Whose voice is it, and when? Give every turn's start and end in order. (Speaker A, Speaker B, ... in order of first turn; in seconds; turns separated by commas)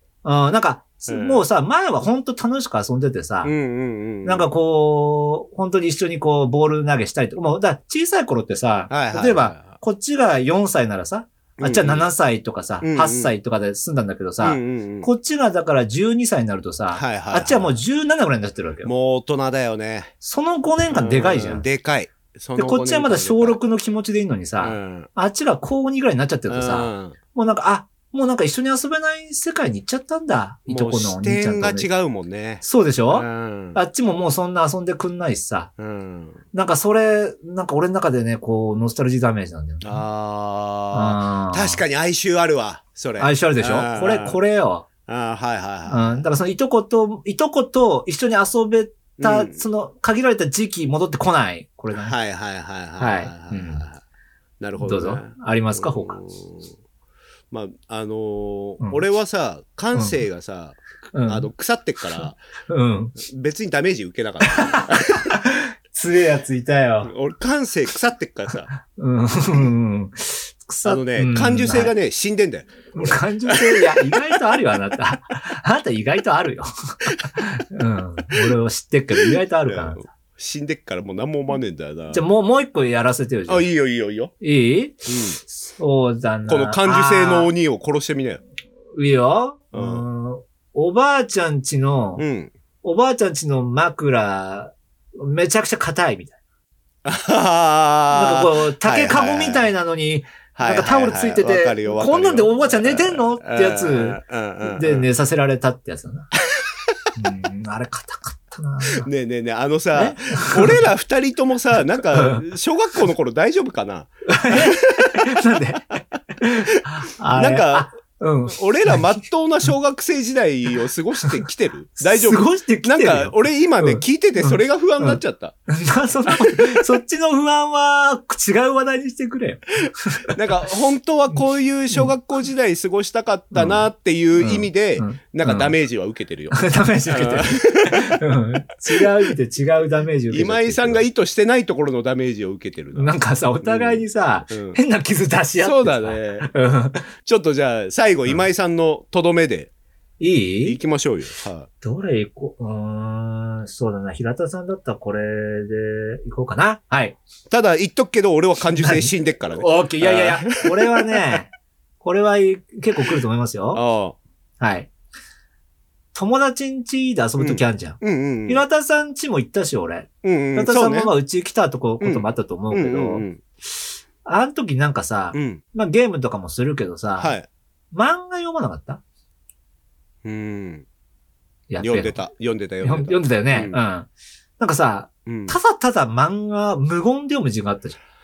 Speaker A: 0.2-3.5, Speaker B: 1.1-1.4, Speaker B: 3.4-4.5, Speaker A: 4.2-18.9, Speaker B: 8.9-9.7, Speaker B: 11.6-12.1, Speaker B: 12.8-13.3, Speaker B: 14.4-15.1, Speaker B: 16.9-17.8, Speaker B: 18.8-20.1, Speaker A: 20.2-21.6, Speaker B: 20.9-23.6, Speaker A: 22.6-31.9, Speaker B: 24.6-25.1, Speaker B: 26.5-27.2, Speaker B: 30.7-33.8, Speaker A: 32.6-35.7, Speaker B: 35.8-36.4, Speaker A: 36.5-40.0, Speaker B: 39.8-44.4, Speaker A: 40.9-41.8, Speaker A: 43.2-44.9, Speaker B: 45.1-46.2, Speaker A: 45.9-52.1, Speaker B: 49.2-49.6, Speaker B: 52.0-54.0, Speaker A: 53.0-53.9, Speaker B: 54.6-56.7, Speaker A: 54.8-56.2, Speaker B: 57.5-62.4, Speaker A: 59.9-60.2, Speaker A: 61.1-61.5, Speaker A: 62.2-63.1, Speaker B: 63.2-65.2, Speaker A: 64.4-67.1, Speaker B: 67.0-68.7, Speaker A: 69.0-71.9, Speaker B: 70.8-73.8, Speaker A: 72.9-80.1, Speaker B: 79.7-82.2, Speaker A: 82.1-83.7, Speaker B: 83.5-84.3, Speaker A: 84.4-87.5, Speaker B: 85.1-85.4, Speaker B: 86.5-88.4, Speaker A: 89.0-92.2, Speaker B: 89.7-90.0, Speaker B: 92.2-92.5, Speaker A: 92.8-96.4, Speaker B: 97.0-99.7, Speaker A: 98.1-106.3, Speaker B: 100.5-105.1, Speaker A: 107.2-109.1, Speaker B: 109.0-115.2, Speaker A: 110.0-110.8, Speaker A: 112.2-112.4, Speaker A: 114.3-119.2, Speaker B: 117.3-117.9, Speaker B: 118.5-125.5, Speaker A: 122.0-130.3, Speaker B: 126.5-126.8, Speaker B: 130.3-138.2, Speaker A: 133.5-133.9, Speaker A: 134.4-135.8, Speaker A: 136.5-141.1, Speaker B: 140.3-144.8, Speaker A: 142.9-147.1, Speaker B: 145.6-146.5, Speaker B: 147.3-149.7, Speaker A: 150.2-150.8, Speaker B: 150.7-151.7, Speaker A: 151.8-157.2, Speaker B: 157.5-161.0, Speaker A: 158.8-163.8, Speaker B: 163.7-164.2, Speaker A: 164.6-164.9, Speaker A: 166.1-173.2, Speaker B: 167.4-168.6, Speaker B: 170.2-171.1, Speaker B: 172.0-173.4, Speaker A: 174.2-177.4, Speaker B: 175.3-175.6, Speaker B: 177.2-177.5, Speaker A: 177.9-179.0, Speaker B: 180.2-180.9, Speaker A: 181.7-182.2, Speaker B: 181.8-183.8, Speaker A: 182.8-188.0, Speaker B: 185.3-185.6